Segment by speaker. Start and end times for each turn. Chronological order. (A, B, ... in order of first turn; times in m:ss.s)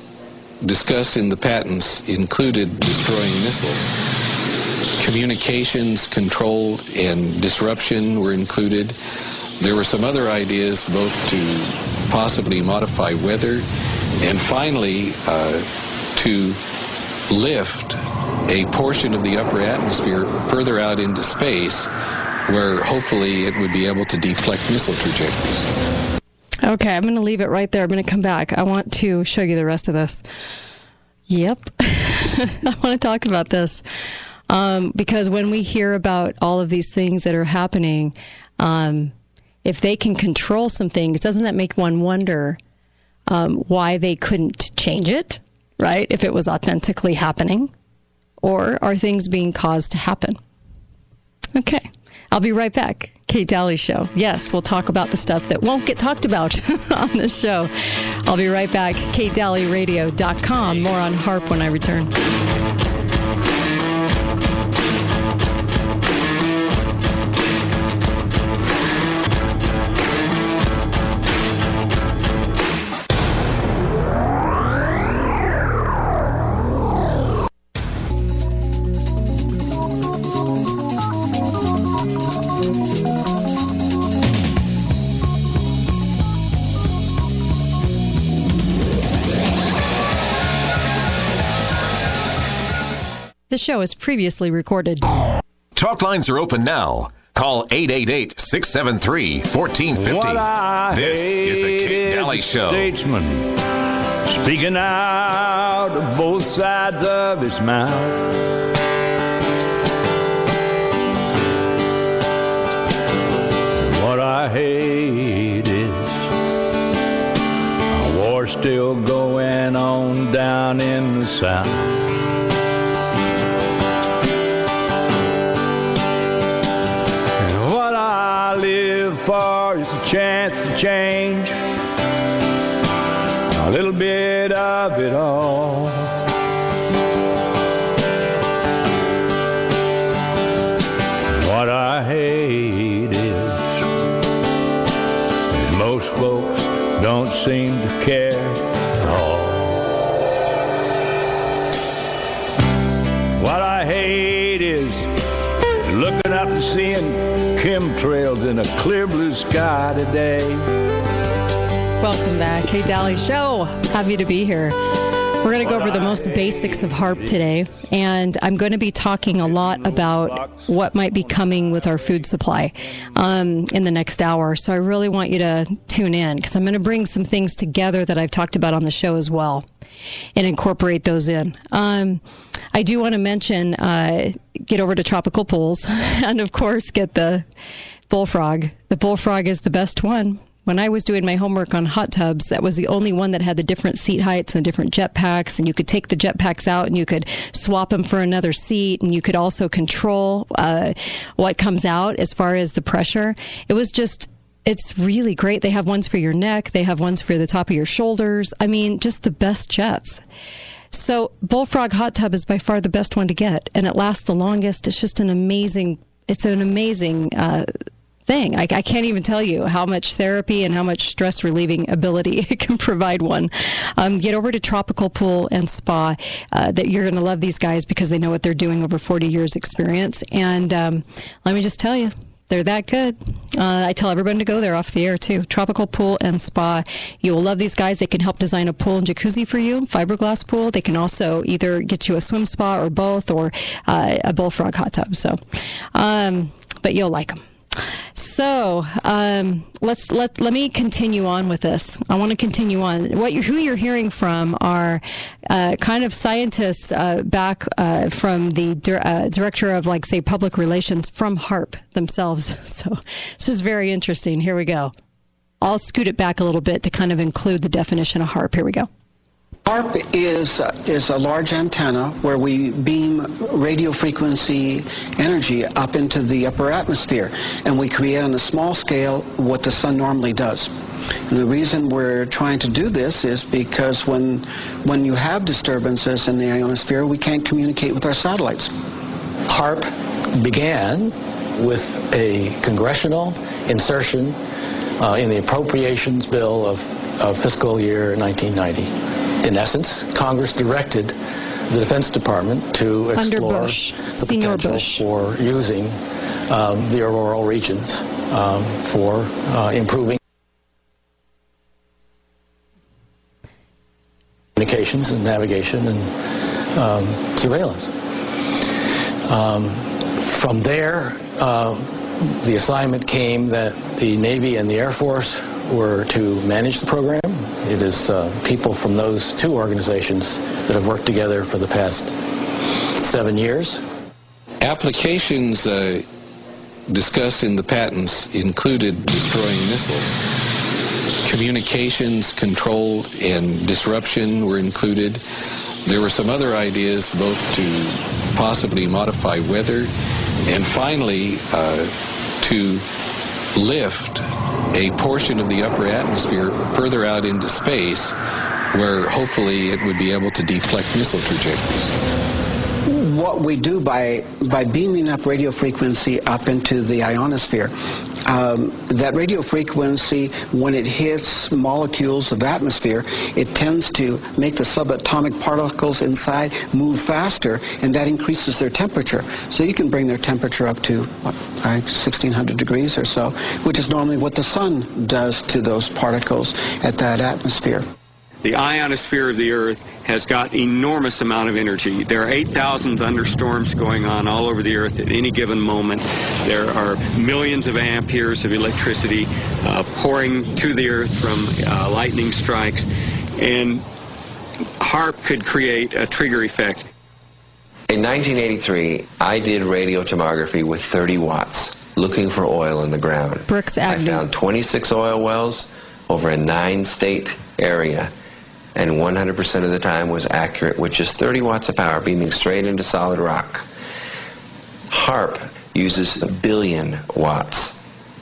0:00.6-0:04.0 A
0:05.0-0:09.0 A
0:09.6-0:13.7 A
0:14.2-0:16.6 A
0:17.3-0:21.9 A
0:22.5-0:25.7 A
0:26.6-0:30.2 B
0:31.3-0:33.8 B
0:34.5-0:42.6 B
0:43.3-0:47.7 B
0:48.4-0:50.4 B
0:51.6-0:57.7 B
0:58.3-1:02.1 B
1:33.5-1:35.1 B
1:35.8-1:42.9 C
1:40.0-1:43.5 D
1:44.3-1:48.3 D
1:53.8-1:56.3 D
1:57.9-2:01.8 D
2:07.4-2:11.6 D
2:13.5-2:16.1 D
2:21.3-2:23.8 D
2:25.5-2:29.8 D
2:33.4-2:35.1 D
2:35.8-2:40.6 D
2:42.0-2:44.8 B
2:45.4-2:59.6 B
2:45.6-2:47.6 D
2:49.4-2:53.1 D
3:00.4-3:02.2 B
3:02.7-3:07.4 B
3:08.1-3:30.2 B
3:30.9-3:37.7 B
3:38.3-4:05.4 B
4:05.9-4:24.9 B
4:25.6-4:28.9 B
4:29.6-4:40.7 E
4:41.3-4:48.7 E
4:49.5-4:54.4 F
4:55.0-5:01.2 F
5:01.7-5:10.2 F
5:03.2-5:05.0 B
5:14.6-5:16.1 F
5:16.7-5:18.0 F
5:19.3-5:32.2 F
5:33.0-5:33.8 F
5:34.6-5:36.1 A
5:36.9-5:40.3 A
5:41.2-5:45.2 A
5:45.8-5:49.9 A
5:50.5-5:52.9 A
5:53.6-5:58.2 A
5:58.7-6:02.0 A
6:02.9-6:07.7 E
6:08.2-6:27.9 E
6:28.4-6:43.8 G
6:44.8-6:46.9 G
6:47.9-6:58.1 H
6:53.5-6:54.2 B
6:58.8-7:03.7 H
7:04.9-7:07.8 H